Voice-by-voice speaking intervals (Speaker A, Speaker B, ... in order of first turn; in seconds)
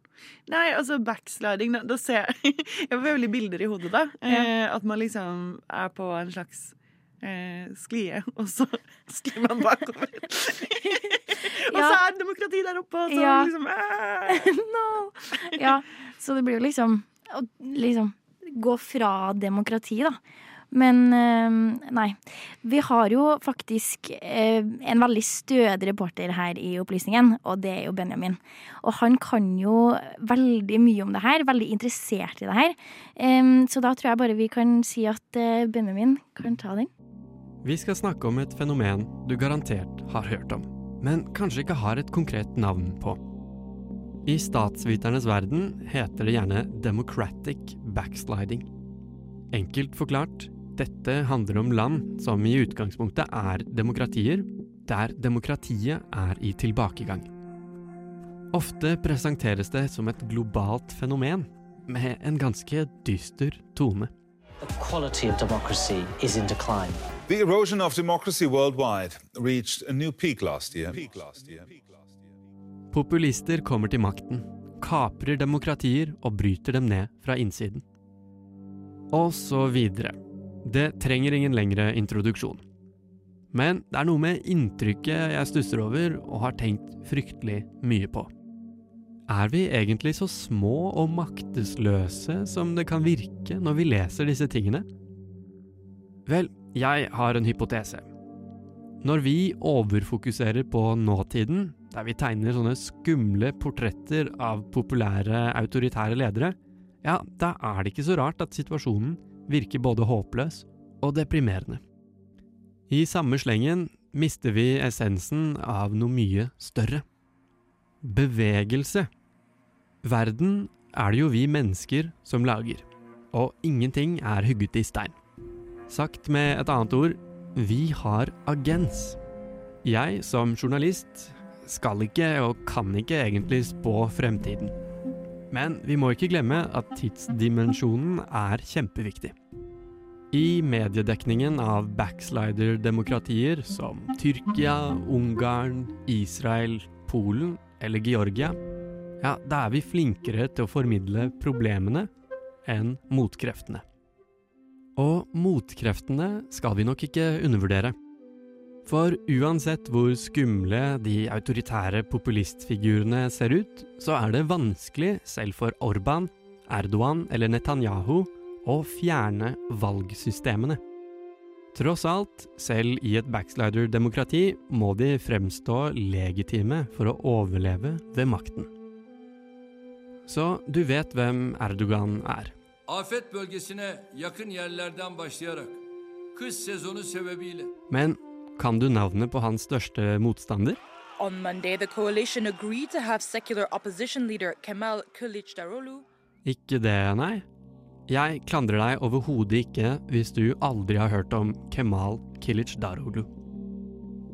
Speaker A: 0.5-14.6
Speaker B: 11.7-12.0, 13.1-13.5, 14.3-20.2, 20.7-36.9
Speaker C: 37.6-43.2, 44.2-48.7, 49.5-57.3, 58.5-64.1, 72.9-77.8, 79.1-82.6, 83.5-88.3, 89.3-94.9, 96.2-98.0, 99.0-111.8, 112.9-117.0, 118.0-119.1, 120.0-125.2, 125.9-129.2, 129.8-134.7, 135.5-139.3, 140.3-148.6, 149.2-152.1, 152.6-153.8, 155.0-157.9, 158.8-170.8, 171.7-178.7, 180.2-182.5, 187.9-190.8, 196.4-197.4, 198.1-203.3
Speaker D: 64.6-67.0
Speaker E: 67.3-71.8
Speaker F: 182.9-185.8, 186.3-187.7
Speaker G: 191.2-196.0